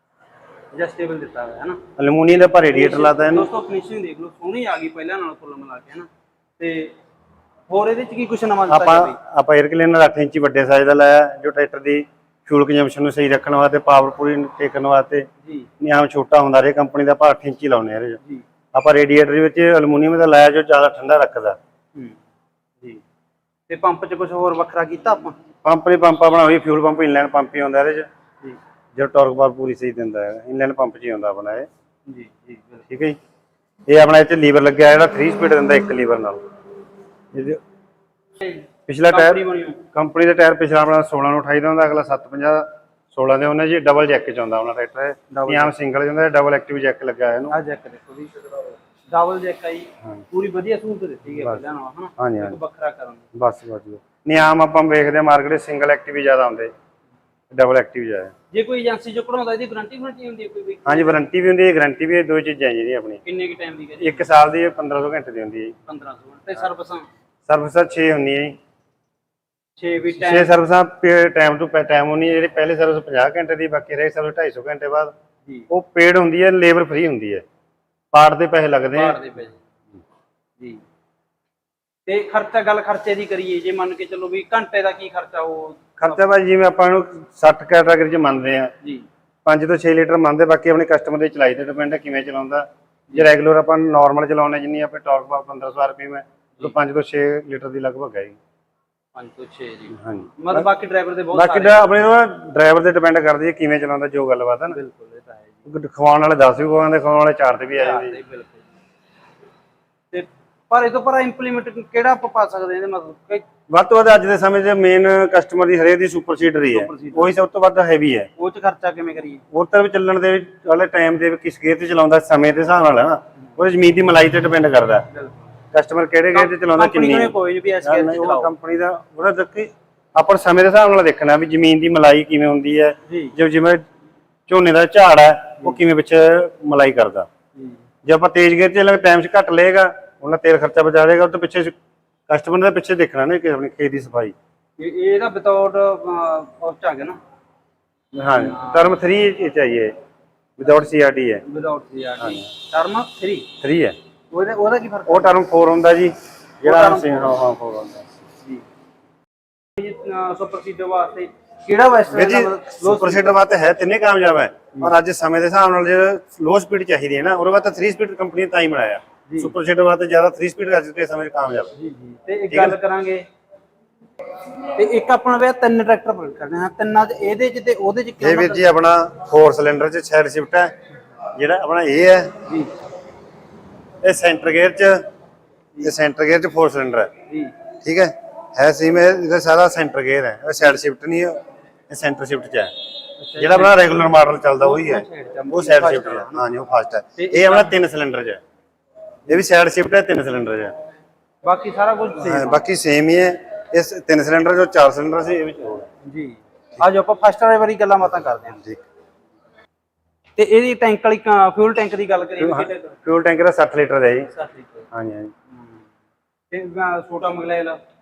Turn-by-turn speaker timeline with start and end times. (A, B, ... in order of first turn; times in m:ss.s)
0:00.7-0:01.8 A
0:02.0-0:03.5 B
0:02.3-0:06.1 A
0:06.6-0:07.0 A
0:07.7-0:09.2 A
0:08.7-0:15.3 B
0:15.8-0:18.2 B
0:18.7-0:21.6 B
0:23.7-0:25.4 A
0:25.6-0:28.1 B
0:29.0-0:31.7 B
0:32.1-0:32.8 A
0:32.9-0:33.2 B
0:33.9-0:36.4 B
0:37.3-0:37.6 B
0:38.4-0:39.8 A
0:38.9-0:47.6 B
0:45.3-0:45.7 A
0:47.5-0:53.3 A
0:52.2-0:52.6 B
0:53.3-0:56.7 B
0:57.5-0:58.3 B
0:58.5-1:01.2 A
1:00.8-1:03.2 B
1:03.2-1:04.3 A
1:04.0-1:05.8 B
1:05.9-1:07.1 A
1:07.5-1:08.6 B
1:09.8-1:10.6 A
1:10.2-1:15.1 B
1:15.7-1:17.4 B
1:18.1-1:19.2 B
1:18.9-1:19.6 A
1:22.1-1:26.2 A
1:26.0-1:28.7 B
1:29.4-1:38.4 B
1:39.2-1:41.9 A
1:40.0-1:40.7 B
1:41.3-1:44.8 B
1:44.7-1:45.5 A
1:45.7-1:48.2 B
1:47.8-1:48.6 A
1:50.1-1:53.4 A
1:53.7-1:58.3 B
1:56.7-1:57.4 A
1:58.4-1:59.4 A
1:59.5-2:05.1 B
2:05.7-2:13.9 B
2:06.3-2:08.5 A
2:13.1-2:13.3 A
2:14.5-2:17.3 B
2:18.0-2:21.8 B
2:22.3-2:24.3 B
2:24.8-2:27.2 A
2:28.2-2:29.9 B
2:28.4-2:28.9 A
2:30.6-2:31.4 B
2:31.4-2:33.5 A
2:32.2-2:32.5 B
2:33.6-2:34.0 B
2:34.3-2:35.4 A
2:35.1-2:38.1 B
2:36.6-2:37.3 A
2:39.8-2:43.3 A
2:42.1-2:51.7 B
2:49.3-2:49.5 A
2:51.8-2:53.3 A
2:52.5-2:52.8 B
2:54.8-2:58.7 A
2:58.2-3:00.7 B
3:01.4-3:02.3 B
3:02.5-3:02.7 A
3:04.0-3:05.0 B
3:05.8-3:07.1 B
3:07.3-3:07.5 A
3:07.8-3:11.4 B
3:11.9-3:12.7 B
3:13.2-3:13.9 A
3:13.4-3:18.4 B
3:14.6-3:16.4 A
3:17.2-3:17.7 A
3:19.3-3:20.7 B
3:21.4-3:22.6 A
3:22.2-3:25.9 B
3:26.0-3:28.6 A
3:30.4-3:33.0 A
3:32.4-3:34.3 B
3:34.3-3:34.8 A
3:34.9-3:35.3 B
3:36.5-3:37.8 A